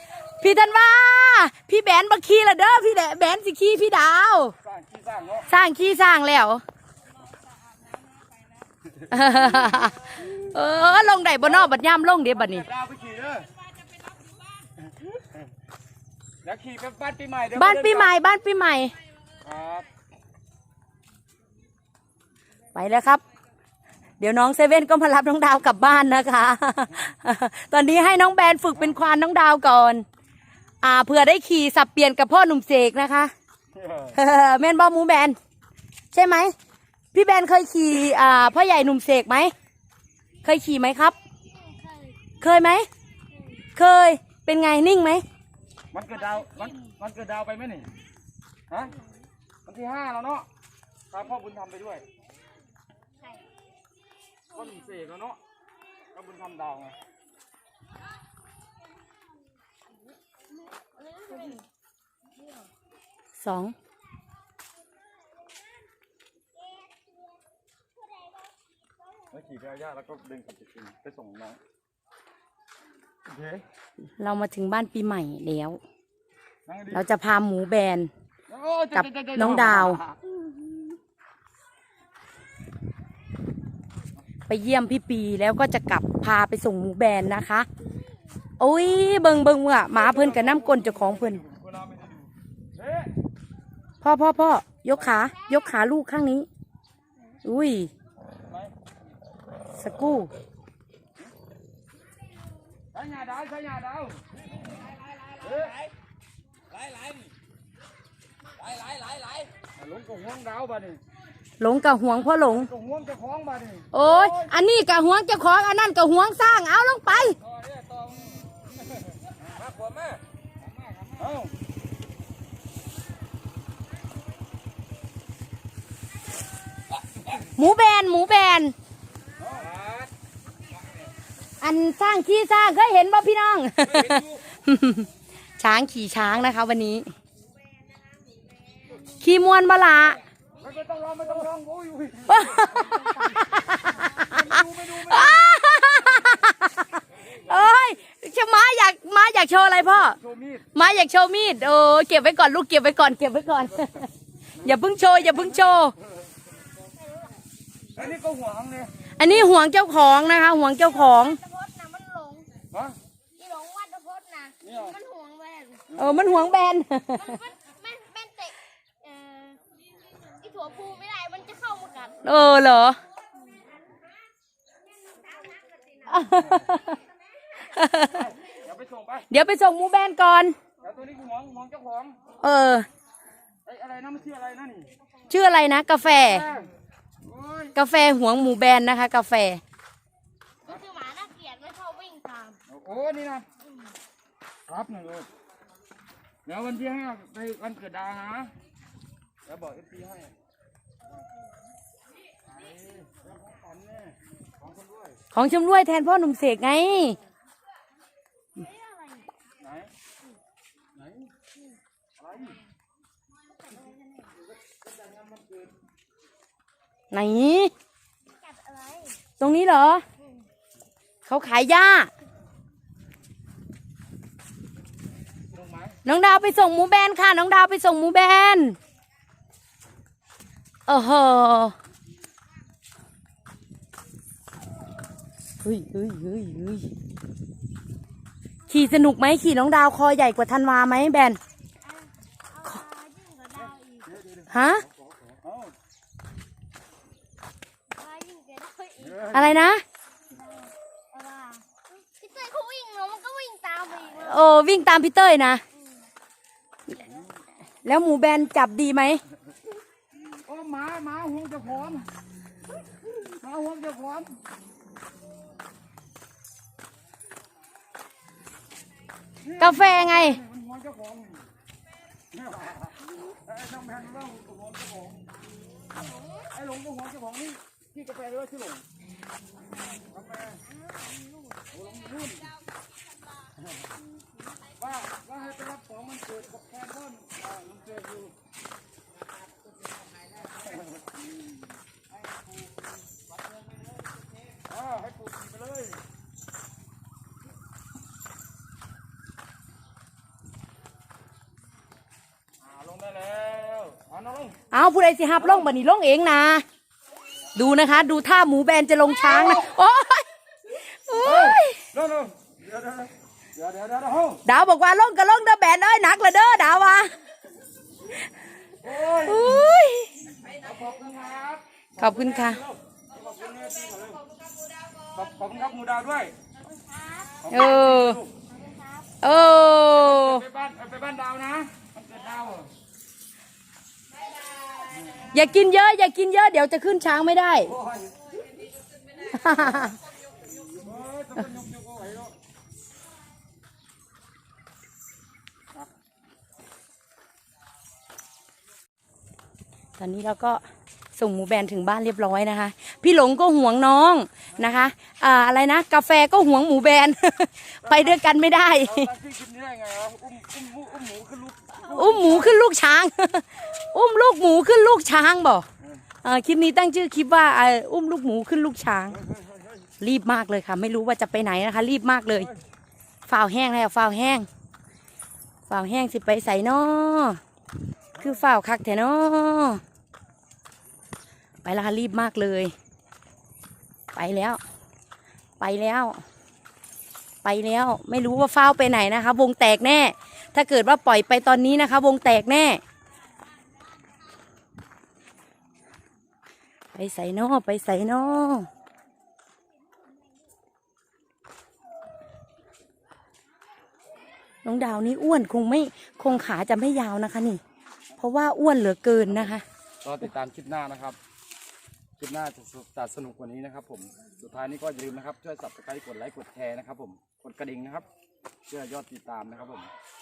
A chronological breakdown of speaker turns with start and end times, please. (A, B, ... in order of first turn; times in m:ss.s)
0:00.1-0:04.5 A
0:04.6-0:05.5 B
0:05.5-0:06.6 A
0:09.1-0:12.7 A
0:11.4-0:13.5 B
0:16.4-0:18.1 B
0:17.5-0:18.9 A
0:19.4-0:19.9 B
0:22.7-0:23.2 A
0:24.2-0:30.0 A
0:30.8-0:33.3 A
0:33.7-0:34.2 B
0:34.1-0:35.4 A
0:36.1-0:36.5 A
0:37.1-0:39.5 A
0:40.4-0:41.2 A
0:41.5-0:42.2 C
0:42.4-0:42.9 A
0:43.3-0:43.6 C
0:43.8-0:45.2 A
0:45.9-0:47.9 B
0:48.7-0:49.0 B
0:49.6-0:50.5 B
0:51.1-0:52.0 B
0:54.5-0:55.4 B
0:56.1-0:57.0 B
1:00.8-1:01.6 C
1:03.4-1:03.8 A
1:06.8-1:07.2 C
1:08.0-1:08.5 C
1:09.3-1:11.6 B
1:13.2-1:13.6 B
1:14.2-1:15.8 A
1:16.7-1:17.1 B
1:16.9-1:18.1 A
1:18.5-1:20.2 B
1:18.9-1:20.0 A
1:24.5-1:27.7 A
1:28.6-1:31.4 A
1:29.9-1:33.1 B
1:34.0-1:36.5 A
1:37.4-1:37.9 A
1:39.8-1:40.3 A
1:42.9-1:44.2 B
1:45.3-1:45.8 B
1:48.6-1:51.0 B
1:51.6-1:52.7 A
1:52.5-1:54.5 B
1:53.9-1:57.4 A
1:57.4-1:58.5 B
1:59.1-2:00.2 B
2:00.9-2:01.5 B
2:07.4-2:08.7 A
2:09.4-2:10.0 B
2:11.6-2:15.1 A
2:13.8-2:14.4 B
2:15.6-2:17.1 A
2:19.2-2:20.2 A
2:20.6-2:23.2 B
2:22.3-2:30.2 A
2:24.1-2:25.5 B
2:30.2-2:30.7 B
2:30.7-2:34.1 A
2:34.6-2:35.9 A
2:37.0-2:37.3 C
2:37.9-2:38.9 B
2:39.2-2:41.4 A
2:40.8-2:42.5 C
2:43.4-2:45.9 C
2:44.6-2:45.0 B
2:45.9-2:46.3 B
2:46.0-2:47.4 A
2:47.2-2:49.6 C
2:50.2-2:52.2 C
2:52.2-2:53.0 A
2:55.2-2:56.0 C
2:56.1-2:57.0 A
2:57.6-2:58.3 A
2:58.0-2:59.3 B
2:59.3-3:00.6 A
3:00.8-3:02.2 B
3:02.4-3:02.9 A
3:03.6-3:04.9 B
3:05.3-3:06.5 A
3:06.2-3:06.7 B
3:07.2-3:07.7 B
3:07.7-3:09.6 A
3:10.6-3:12.6 C
3:12.7-3:13.4 B
3:14.7-3:15.3 B
3:16.4-3:18.5 B
3:19.4-3:20.3 B
3:22.5-3:25.2 B
3:25.3-3:27.2 A
3:28.6-3:29.3 C
3:29.6-3:29.9 B
3:31.0-3:31.3 B
3:32.2-3:32.6 B
3:33.7-3:34.3 C
3:34.7-3:35.7 B
3:37.1-3:37.7 A
3:38.4-3:39.2 C
3:39.4-3:40.0 A
3:41.2-3:42.1 A
3:45.5-3:46.0 B
3:46.0-3:48.8 A
3:50.9-3:51.7 A
3:55.6-3:56.9 A
3:58.7-4:01.4 A
4:01.8-4:04.1 C
4:04.1-4:04.4 B
4:04.5-4:04.8 A
4:05.0-4:05.7 B
4:07.9-4:09.2 C
4:09.1-4:09.5 B
4:09.3-4:09.8 A
4:10.3-4:14.4 C
4:14.1-4:15.6 A
4:15.7-4:16.0 C
4:17.8-4:19.2 A
4:20.4-4:22.1 B
4:23.0-4:24.4 B
4:29.4-4:31.5 B
4:29.6-4:30.4 A
4:32.3-4:35.2 B
4:35.9-4:36.5 C
4:36.5-4:38.8 B
4:40.1-4:40.6 B
4:40.7-4:41.6 C
4:41.7-4:42.5 B
4:44.8-4:48.3 B
4:54.6-4:56.0 B
5:02.6-5:04.6 B
5:04.7-5:06.6 A
5:05.4-5:05.7 B
5:07.6-5:11.8 A
5:11.2-5:14.4 B
5:14.4-5:17.1 A
5:18.8-5:19.6 B
5:19.2-5:20.1 A
5:20.4-5:24.2 B
5:22.0-5:22.6 A
5:25.1-5:26.3 B
5:26.6-5:27.6 C
5:27.4-5:28.3 B
5:27.5-5:28.2 A
5:28.5-5:29.1 C
5:29.2-5:30.4 A
5:29.9-5:32.7 B
5:35.2-5:37.7 A
5:37.7-5:38.3 B
5:39.2-5:40.0 A
5:39.6-5:39.9 B
5:40.7-5:42.3 B
5:50.0-5:50.6 A
5:51.2-5:59.1 A
5:57.8-5:58.2 B
5:58.8-6:02.6 B
6:01.8-6:05.7 A
6:06.2-6:09.2 A
6:09.2-6:09.8 B
6:10.0-6:12.5 A
6:13.3-6:14.5 A
6:15.7-6:17.4 A
6:18.2-6:19.8 A
6:21.6-6:22.7 A
6:24.1-6:24.6 A
6:25.6-6:26.2 A
6:27.4-6:32.8 A
6:36.9-6:38.7 A
6:44.6-6:47.6 A
6:48.2-6:49.6 A
6:50.0-6:51.2 B
6:52.2-6:58.0 B
6:58.7-6:59.9 B